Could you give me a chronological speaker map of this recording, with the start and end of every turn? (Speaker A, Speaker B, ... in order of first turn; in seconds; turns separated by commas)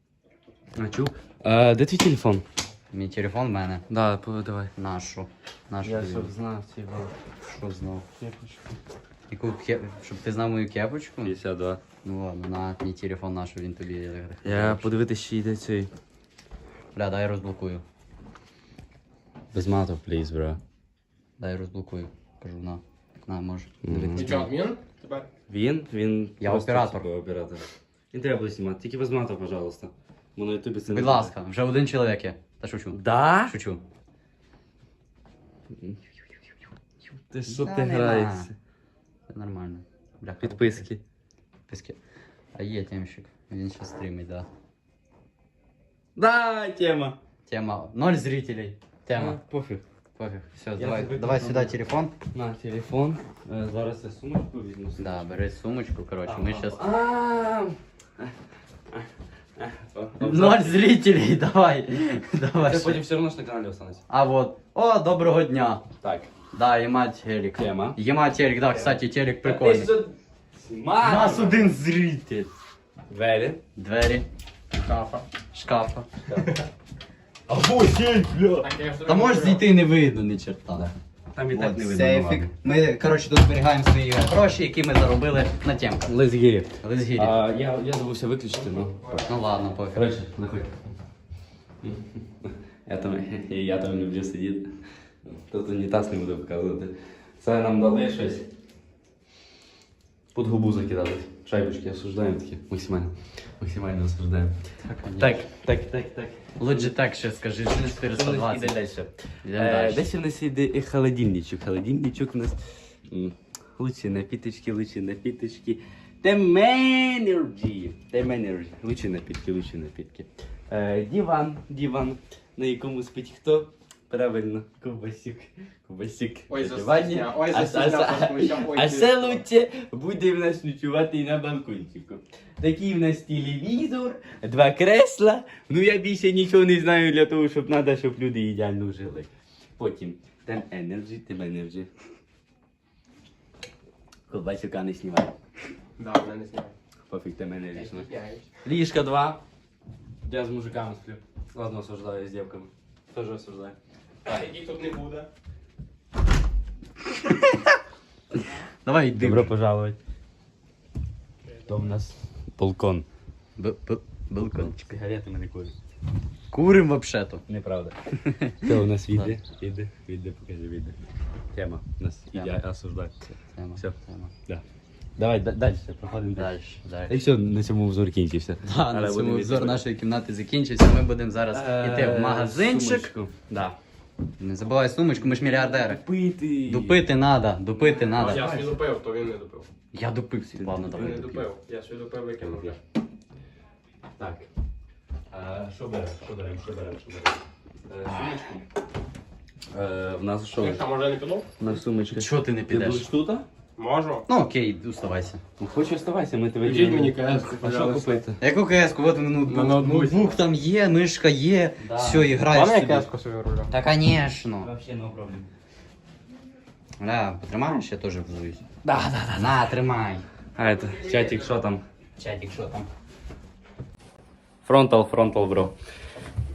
Speaker A: 0.7-2.4, Speaker B: 2.9-3.8, Speaker A: 3.9-4.7, Speaker B: 4.8-6.3, Speaker A: 5.8-7.1, Speaker B: 7.4-8.1, Speaker A: 8.2-8.8, Speaker B: 9.3-11.4, Speaker A: 11.2-11.8, Speaker B: 12.0-15.0, Speaker A: 14.4-15.9, Speaker B: 16.9-17.8, Speaker A: 19.5-20.6, Speaker B: 21.4-24.5, Speaker A: 23.8-24.4, Speaker C: 24.1-25.3, Speaker A: 25.5-31.3, Speaker B: 26.4-27.1, Speaker B: 30.9-33.8, Speaker A: 32.9-33.5, Speaker A: 35.8-36.0, Speaker A: 37.3-38.5, Speaker B: 37.5-38.5, Speaker B: 39.3-40.9, Speaker A: 40.4-41.0, Speaker B: 41.7-42.0, Speaker B: 42.5-44.5, Speaker A: 46.1-47.2, Speaker B: 47.5-49.4, Speaker A: 49.1-49.8, Speaker B: 50.1-52.1, Speaker A: 50.8-51.8, Speaker A: 52.3-55.3, Speaker B: 55.0-56.8, Speaker A: 56.2-58.3, Speaker A: 58.9-60.9, Speaker B: 60.2-63.0, Speaker A: 62.5-64.0, Speaker B: 64.1-65.8, Speaker A: 66.0-66.3, Speaker B: 66.5-69.9, Speaker A: 67.6-68.0, Speaker A: 68.7-71.8, Speaker B: 71.0-72.5, Speaker A: 73.1-73.6, Speaker B: 73.8-74.2, Speaker C: 74.8-75.2, Speaker B: 75.5-76.3, Speaker A: 76.2-76.6, Speaker A: 77.5-78.7, Speaker C: 78.6-79.6, Speaker B: 79.0-80.9, Speaker A: 80.7-82.5, Speaker B: 81.5-86.1, Speaker A: 86.1-89.2, Speaker B: 86.8-87.3, Speaker B: 89.1-90.1, Speaker A: 89.9-90.7, Speaker A: 91.8-94.7, Speaker A: 95.2-98.5, Speaker A: 100.3-104.6, Speaker B: 104.8-105.4, Speaker A: 105.2-107.0, Speaker B: 106.6-108.8, Speaker A: 107.7-141.9, Speaker B: 109.4-110.1, Speaker C: 126.5-129.3, Speaker A: 144.3-145.3, Speaker C: 146.0-146.7, Speaker A: 147.1-148.1, Speaker C: 147.9-148.4, Speaker A: 148.6-149.4, Speaker A: 150.2-154.6, Speaker C: 154.3-155.3, Speaker B: 157.1-157.7, Speaker B: 158.8-159.5, Speaker A: 159.2-160.0, Speaker A: 161.7-163.1, Speaker B: 163.6-165.0, Speaker A: 164.5-165.7, Speaker B: 166.5-167.4, Speaker A: 167.5-167.9, Speaker B: 168.1-169.3, Speaker A: 168.6-171.0, Speaker A: 171.5-173.1, Speaker B: 172.3-172.6, Speaker B: 173.3-174.3, Speaker A: 175.2-176.5, Speaker B: 176.4-177.2, Speaker A: 177.1-179.8, Speaker B: 178.6-183.1, Speaker A: 181.5-183.8, Speaker B: 184.4-186.0, Speaker A: 185.2-187.1, Speaker B: 186.7-188.6, Speaker A: 187.8-188.8, Speaker C: 188.3-189.6, Speaker B: 189.9-191.5, Speaker A: 190.6-191.2, Speaker C: 190.9-192.8, Speaker A: 194.2-194.5, Speaker A: 195.3-198.7, Speaker A: 199.7-200.9, Speaker C: 200.6-201.5, Speaker A: 201.6-203.4, Speaker B: 202.1-203.1, Speaker C: 203.8-204.2, Speaker B: 204.3-205.4, Speaker A: 205.6-208.4, Speaker C: 206.6-208.2, Speaker B: 208.4-213.1, Speaker C: 209.5-210.3, Speaker A: 211.8-212.3, Speaker C: 212.4-213.7, Speaker B: 213.7-214.7, Speaker A: 214.6-215.5, Speaker B: 217.0-218.7, Speaker A: 218.8-219.8, Speaker B: 219.3-220.2, Speaker A: 220.6-221.8, Speaker B: 222.2-222.9, Speaker A: 224.6-225.7